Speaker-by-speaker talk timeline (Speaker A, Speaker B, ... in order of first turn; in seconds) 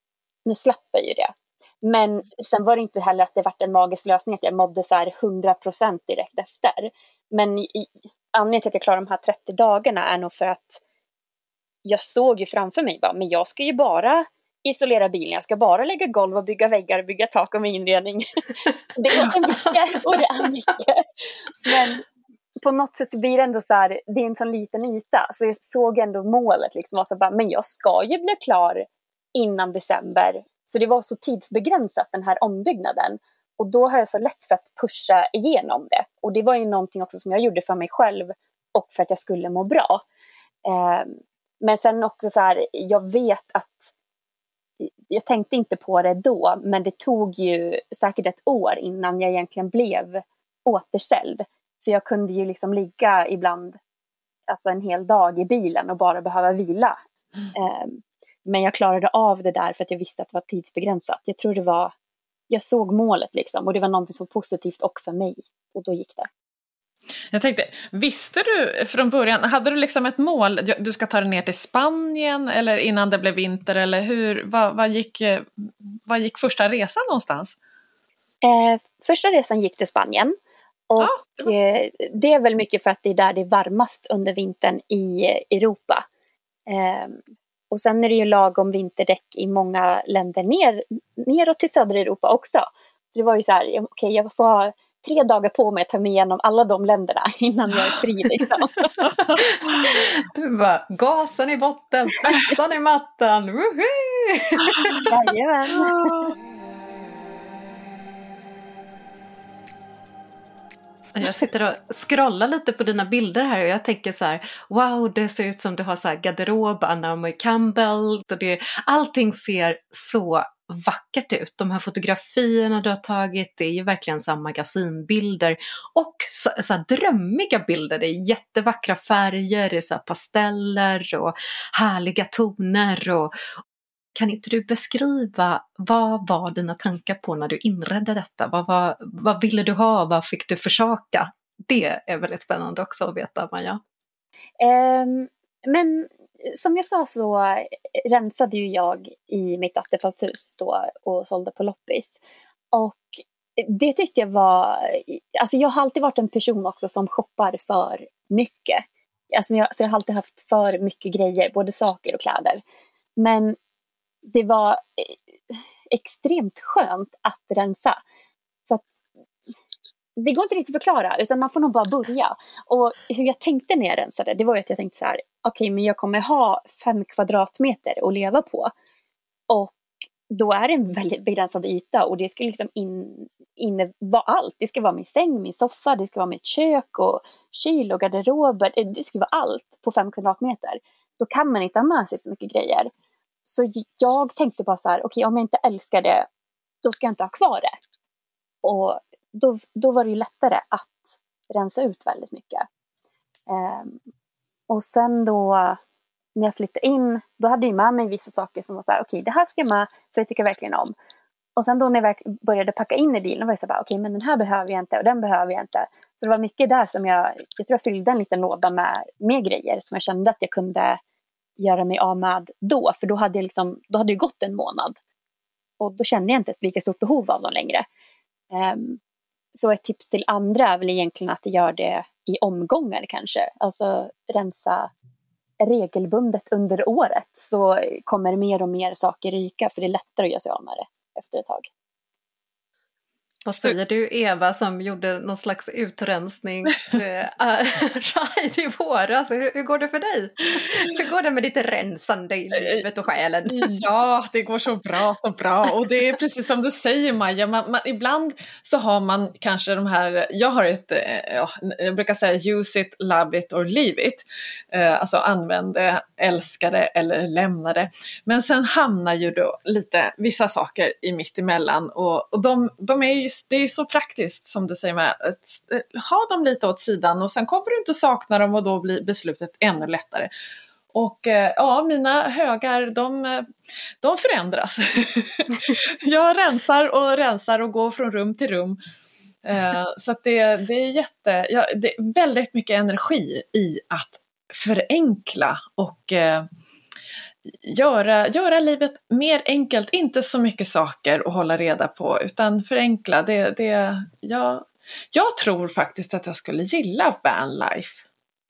Speaker A: 0.5-1.3, 1.8-10.8, 11.9-22.0, 22.6-40.0, 40.7-43.9, 44.8-53.8, 54.5-57.0, 57.5-61.9, 62.5-66.3, 78.4-80.3, 80.9-86.0, 86.7-87.2, 87.7-99.1, 105.0-106.3, 144.6-152.2, 152.7-162.6, 163.2-163.6, 164.3-168.0, 170.2-178.7, 179.5-179.8, 180.3-192.9, 193.5-196.3, 196.8-197.7, 198.6-201.0, 201.5-202.7, 203.5-204.0, 204.7-205.8, 206.4-210.9, 211.6-221.0, 221.6-225.0, 225.8-227.9, 228.5-229.0, 229.6-234.9, 235.6-241.7
Speaker B: 19.3-20.2, 99.2-105.1, 111.2-133.3, 134.2-143.8, 243.5-253.7
Speaker C: 67.3-77.5, 81.0-81.5, 105.8-106.3, 253.4-280.3, 280.9-283.5, 284.0-288.8, 289.4-296.5, 297.5-308.0